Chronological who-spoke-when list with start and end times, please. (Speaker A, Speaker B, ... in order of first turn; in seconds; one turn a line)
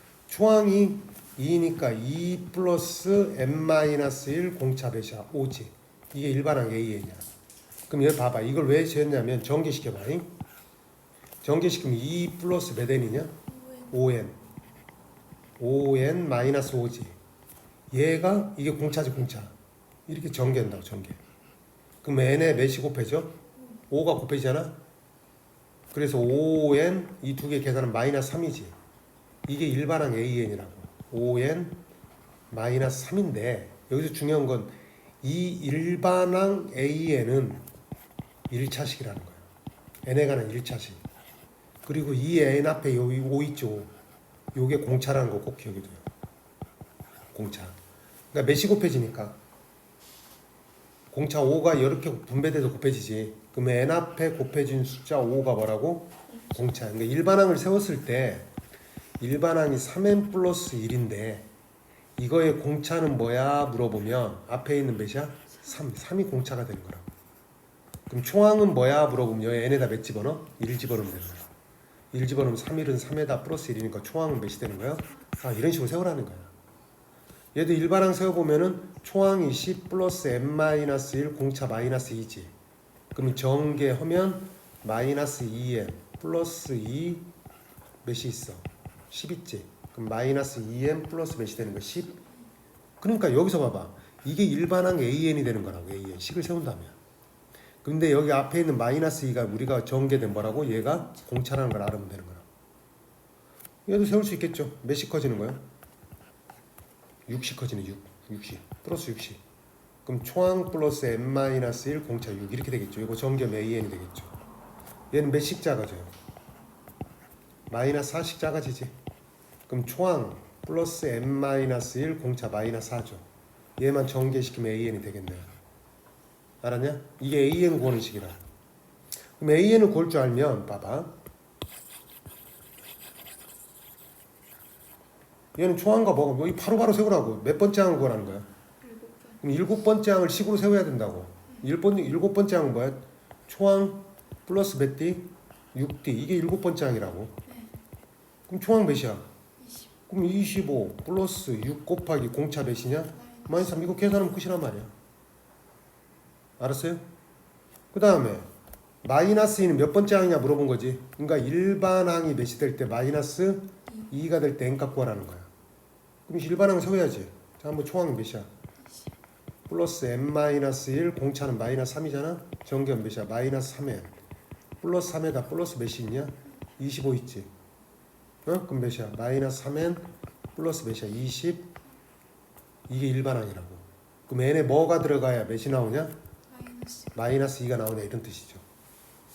Speaker A: 0.3-7.3
Speaker A: 7.9-10.3
Speaker A: 11.4-13.4
Speaker B: 13.5-14.0
Speaker A: 13.9-14.4
Speaker A: 15.6-17.2
Speaker A: 17.9-19.5
Speaker A: 20.1-21.2
Speaker A: 22.0-23.4
Speaker A: 23.9-24.8
Speaker A: 25.9-28.8
Speaker A: 29.5-31.8
Speaker A: 32.5-37.6
Speaker A: 38.5-39.5
Speaker A: 40.0-41.0
Speaker A: 41.9-43.9
Speaker A: 44.5-46.1
Speaker A: 47.3-47.8
Speaker A: 48.3-49.4
Speaker A: 51.1-58.5
Speaker B: 56.3-56.7
Speaker A: 59.2-61.5
Speaker A: 62.2-67.1
Speaker A: 68.1-71.5
Speaker A: 72.1-76.5
Speaker A: 77.5-82.5
Speaker A: 83.1-87.3
Speaker A: 88.0-92.2
Speaker A: 93.0-97.0
Speaker A: 97.8-102.5
Speaker A: 103.9-105.6
Speaker A: 107.3-109.4
Speaker A: 110.0-114.3
Speaker A: 115.1-116.1
Speaker A: 117.7-119.0
Speaker A: 119.7-123.2
Speaker A: 123.8-125.5
Speaker A: 126.6-128.4
Speaker A: 129.4-131.2
Speaker A: 135.6-138.5
Speaker B: 138.8-139.4
Speaker A: 139.4-147.4
Speaker B: 147.5-147.8
Speaker A: 148.5-149.3
Speaker B: 149.6-149.9
Speaker A: 150.1-154.9
Speaker B: 153.1-154.2
Speaker A: 156.6-157.0
Speaker A: 157.9-158.5
Speaker A: 159.0-165.5
Speaker B: 163.9-164.1
Speaker A: 166.3-168.5
Speaker B: 168.8-169.1
Speaker A: 169.7-174.2
Speaker A: 174.8-177.5
Speaker A: 178.4-181.7
Speaker A: 182.9-186.2
Speaker B: 186.5-187.2
Speaker A: 187.1-188.6